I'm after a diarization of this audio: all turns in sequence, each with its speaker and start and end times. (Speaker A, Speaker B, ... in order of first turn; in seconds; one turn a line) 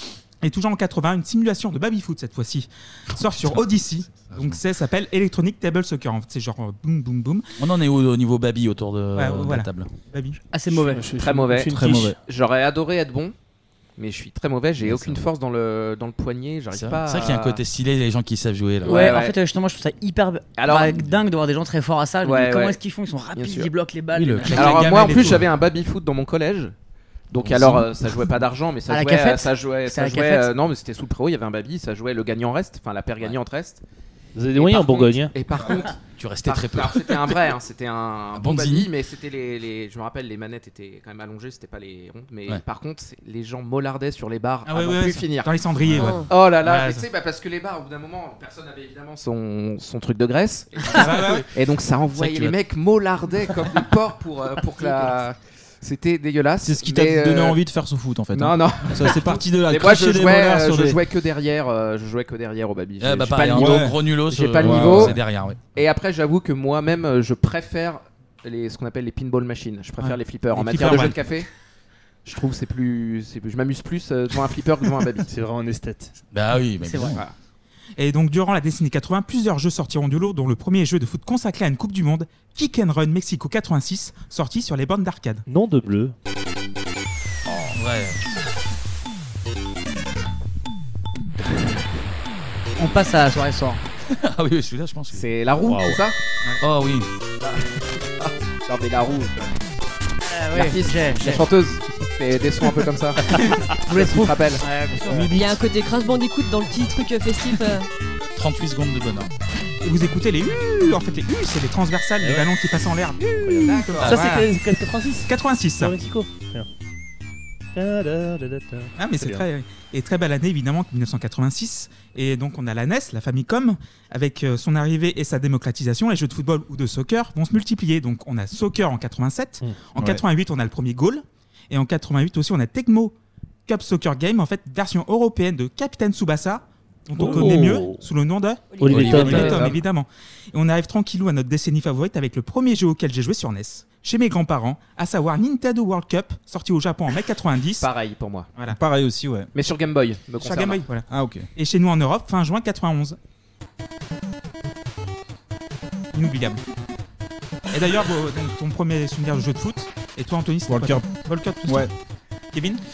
Speaker A: 0.4-7.4
Speaker B: 4.2-4.6
Speaker B: 7.6-9.9
Speaker A: 9.2-10.4
Speaker C: 10.5-11.1
Speaker D: 10.9-12.1
Speaker E: 11.2-13.3
Speaker F: 11.7-12.2
Speaker E: 14.0-17.6
Speaker B: 14.9-15.2
Speaker B: 16.7-19.1
Speaker E: 18.8-19.3
Speaker C: 18.8-25.2
Speaker E: 20.6-21.1
Speaker E: 22.2-22.8
Speaker E: 23.4-23.7
Speaker B: 24.1-25.4
Speaker E: 24.5-26.7
Speaker A: 24.5-25.4
Speaker E: 27.3-33.8
Speaker B: 27.4-27.8
Speaker C: 28.9-30.5
Speaker D: 34.3-35.3
Speaker E: 34.5-45.5
Speaker B: 36.1-37.4
Speaker B: 38.3-38.9
Speaker A: 44.6-47.0
Speaker G: 45.9-46.3
Speaker E: 46.3-57.6
Speaker F: 51.0-51.4
Speaker A: 51.0-51.4
Speaker B: 52.1-52.5
Speaker F: 56.6-61.0
Speaker E: 58.3-65.2
Speaker B: 63.0-65.6
Speaker F: 63.5-63.9
Speaker F: 64.6-65.2
Speaker E: 65.7-71.5
Speaker A: 70.0-71.2
Speaker E: 72.2-75.3
Speaker D: 75.3-76.1
Speaker B: 76.3-77.2
Speaker C: 76.8-77.2
Speaker A: 78.0-85.4
Speaker D: 85.5-86.1
Speaker B: 87.7-88.2
Speaker C: 92.8-93.8
Speaker B: 94.1-95.2
Speaker E: 95.1-96.2
Speaker D: 95.6-96.0
Speaker B: 96.6-97.1
Speaker E: 98.2-99.5
Speaker C: 100.3-101.5
Speaker E: 100.5-104.6
Speaker C: 103.9-105.3
Speaker G: 105.3-107.9
Speaker B: 108.3-109.3
Speaker A: 109.8-114.5
Speaker D: 112.2-112.5
Speaker D: 113.2-116.7
Speaker B: 114.0-114.2
Speaker A: 115.2-116.0
Speaker D: 117.7-119.5
Speaker A: 119.0-133.1
Speaker A: 133.7-147.9
Speaker D: 137.1-138.0
Speaker G: 138.7-139.0
Speaker D: 138.8-139.8
Speaker B: 138.9-139.7
Speaker E: 147.8-148.5
Speaker F: 148.7-149.5
Speaker E: 149.5-150.8
Speaker A: 150.4-153.2
Speaker F: 151.1-151.5
Speaker A: 156.1-156.6
Speaker A: 157.7-161.9
Speaker F: 160.7-161.1
Speaker A: 162.5-162.8